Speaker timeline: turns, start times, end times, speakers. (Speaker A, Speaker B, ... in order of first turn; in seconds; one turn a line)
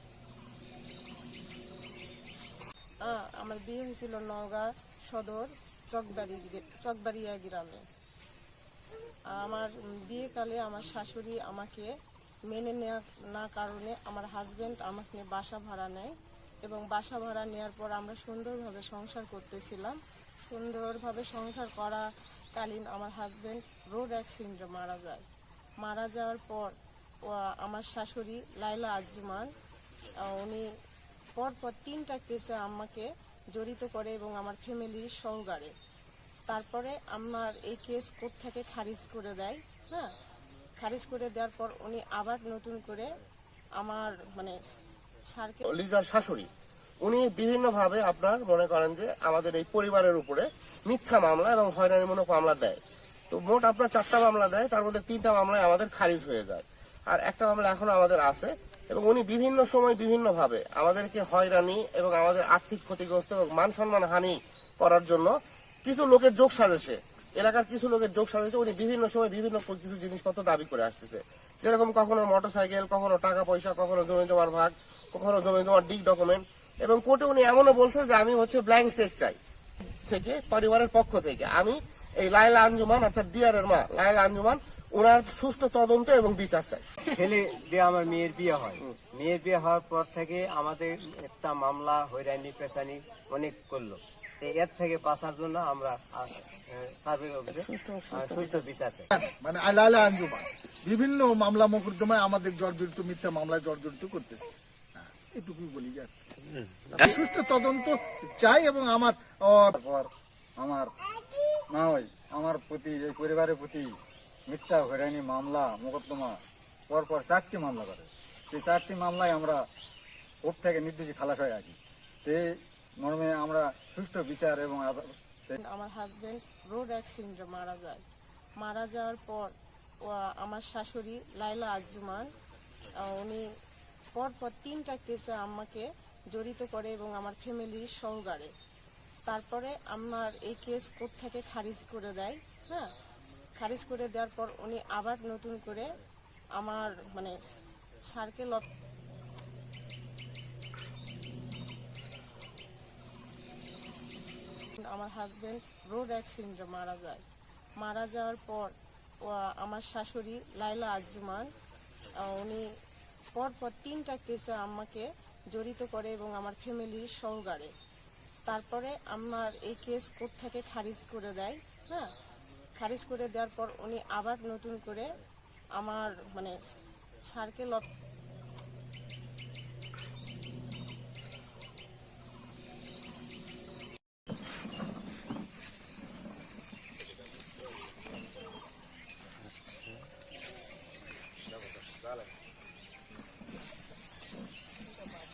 Speaker A: 3.0-7.8
Speaker A: 9.3-11.9
Speaker A: 12.5-25.2
Speaker A: 25.8-26.7
Speaker A: 27.2-29.5
Speaker A: 30.2-30.6
Speaker A: 31.4-35.7
Speaker A: 36.5-40.1
Speaker A: 40.8-43.1
Speaker A: 43.8-44.6
Speaker A: 45.3-45.7
Speaker B: 45.7-46.5
Speaker B: 47.0-52.8
Speaker B: 53.3-65.3
Speaker B: 65.8-79.4
Speaker B: 80.0-86.8
Speaker C: 87.1-99.1
Speaker B: 97.5-98.6
Speaker D: 99.1-106.1
Speaker B: 106.9-107.2
Speaker D: 107.0-109.7
Speaker E: 109.7-110.9
Speaker E: 111.7-114.0
Speaker E: 114.5-119.7
Speaker E: 120.4-125.6
Speaker A: 125.6-128.0
Speaker A: 128.6-129.5
Speaker A: 130.0-132.3
Speaker A: 132.9-133.4
Speaker A: 134.1-138.5
Speaker A: 139.2-142.9
Speaker A: 143.6-146.0
Speaker A: 146.6-147.4
Speaker A: 148.1-148.7
Speaker A: 154.8-157.2
Speaker A: 157.8-161.5
Speaker A: 162.2-162.7
Speaker A: 163.3-167.7
Speaker A: 168.5-172.1
Speaker A: 172.8-175.2
Speaker A: 175.8-176.6
Speaker A: 177.2-177.9
Speaker B: 191.5-192.3